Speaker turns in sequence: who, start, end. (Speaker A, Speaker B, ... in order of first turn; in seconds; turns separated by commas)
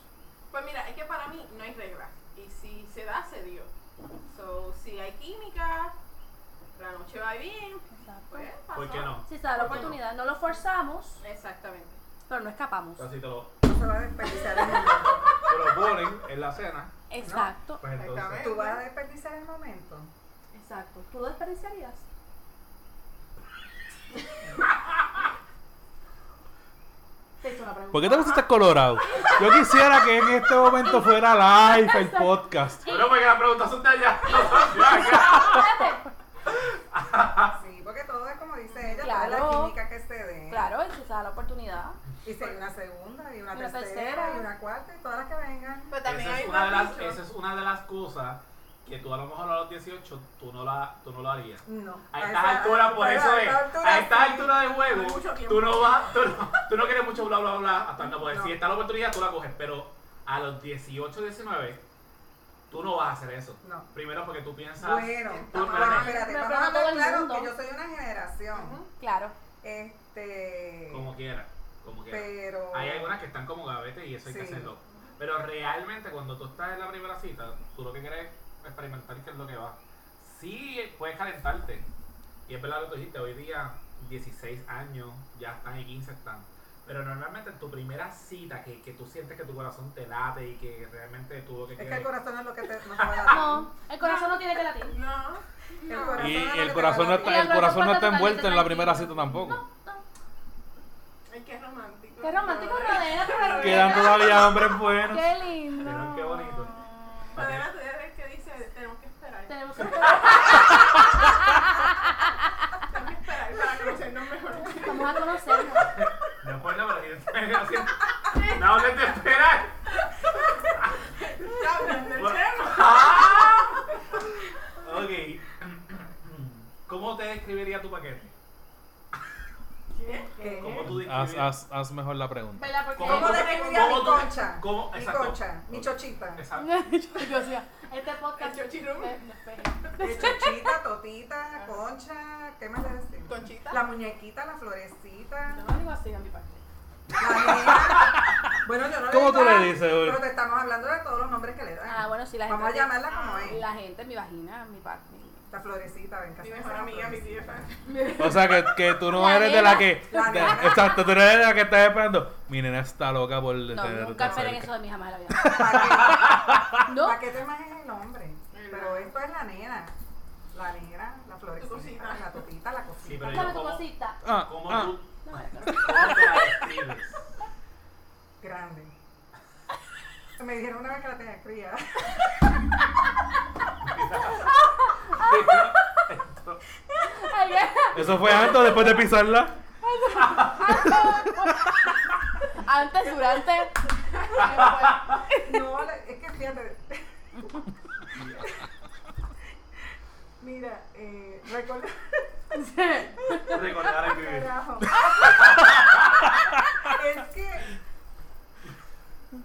Speaker A: 0.5-3.7, Speaker A: 4.3-6.0, Speaker A: 6.8-10.0, Speaker B: 7.9-8.5, Speaker C: 8.7-10.0, Speaker B: 9.2-11.2, Speaker A: 11.2-12.0, Speaker B: 12.3-13.1, Speaker C: 13.0-13.6, Speaker D: 13.6-15.4, Speaker C: 15.5-16.9, Speaker B: 17.1-17.8, Speaker D: 17.2-17.5, Speaker C: 17.8-18.5, Speaker A: 17.9-18.8, Speaker D: 18.4-20.1, Speaker B: 20.5-22.0, Speaker B: 27.4-28.5, Speaker E: 27.9-32.9, Speaker B: 29.1-29.5, Speaker B: 30.8-33.3, Speaker C: 32.9-35.7, Speaker B: 34.3-36.1, Speaker C: 36.9-37.6, Speaker D: 37.5-40.7, Speaker A: 38.7-39.1, Speaker B: 39.0-39.8, Speaker B: 40.5-42.0, Speaker D: 42.2-45.9, Speaker B: 43.5-44.5, Speaker A: 45.9-47.2, Speaker C: 46.0-61.8, Speaker D: 51.6-54.6, Speaker A: 54.7-56.7, Speaker D: 58.2-58.6, Speaker C: 62.7-66.2, Speaker D: 63.6-63.9, Speaker D: 64.8-68.8, Speaker A: 65.2-66.3, Speaker B: 66.0-67.5, Speaker A: 68.5-68.9, Speaker B: 69.0-69.3, Speaker D: 69.6-71.1, Speaker C: 70.9-81.9, Speaker D: 72.1-73.2, Speaker D: 74.2-74.7, Speaker C: 82.5-92.1, Speaker D: 91.8-93.7, Speaker C: 93.0-93.4, Speaker B: 93.3-95.0, Speaker A: 94.0-96.5, Speaker D: 95.8-97.6, Speaker E: 96.2-99.6, Speaker B: 97.1-100.0, Speaker A: 101.3-104.4, Speaker B: 102.2-107.2, Speaker E: 103.6-105.3, Speaker C: 105.8-106.8, Speaker A: 107.3-110.8, Speaker C: 107.3-107.7, Speaker B: 109.5-112.7, Speaker A: 112.9-115.8, Speaker B: 114.7-116.0, Speaker C: 115.9-119.8, Speaker A: 118.2-118.6, Speaker A: 120.7-124.0, Speaker C: 122.1-123.8, Speaker C: 124.8-128.3, Speaker A: 130.0-130.3, Speaker B: 130.0-130.9, Speaker D: 130.4-131.0, Speaker C: 130.6-131.6, Speaker E: 130.9-132.7, Speaker B: 132.6-134.0, Speaker C: 132.9-136.8, Speaker D: 133.0-136.4, Speaker B: 136.5-140.8, Speaker A: 138.4-139.2, Speaker D: 140.0-145.7, Speaker A: 143.3-143.8, Speaker B: 145.5-146.6, Speaker D: 147.2-153.6, Speaker E: 147.6-148.1, Speaker E: 149.0-150.3, Speaker B: 151.9-155.5, Speaker A: 153.1-153.5, Speaker D: 155.5-157.5, Speaker A: 156.4-158.2, Speaker B: 157.9-160.9, Speaker E: 158.2-164.7, Speaker D: 160.1-161.0, Speaker B: 163.7-166.2, Speaker A: 164.2-164.6, Speaker D: 165.4-169.9, Speaker E: 165.4-166.7, Speaker B: 166.9-167.2, Speaker A: 168.5-169.1, Speaker D: 170.5-173.6, Speaker A: 171.6-172.3, Speaker C: 173.0-175.1, Speaker B: 173.2-174.2, Speaker E: 174.2-175.0, Speaker B: 175.2-176.4, Speaker E: 175.6-176.5, Speaker C: 175.8-177.3, Speaker D: 178.4-178.9, Speaker D: 180.4-182.3, Speaker C: 183.8-184.5, Speaker B: 184.4-186.0, Speaker C: 185.1-186.6, Speaker B: 187.1-188.2, Speaker C: 187.9-189.0, Speaker E: 187.9-189.6, Speaker B: 189.8-191.8, Speaker C: 190.2-190.7, Speaker E: 190.7-191.0, Speaker B: 192.5-195.7, Speaker A: 194.1-194.6, Speaker C: 194.4-195.2, Speaker D: 195.3-197.5, Speaker C: 198.1-198.4, Speaker D: 200.4-202.3, Speaker B: 202.5-203.6, Speaker D: 203.2-205.7, Speaker C: 203.4-204.6, Speaker C: 205.2-206.2, Speaker D: 206.8-207.7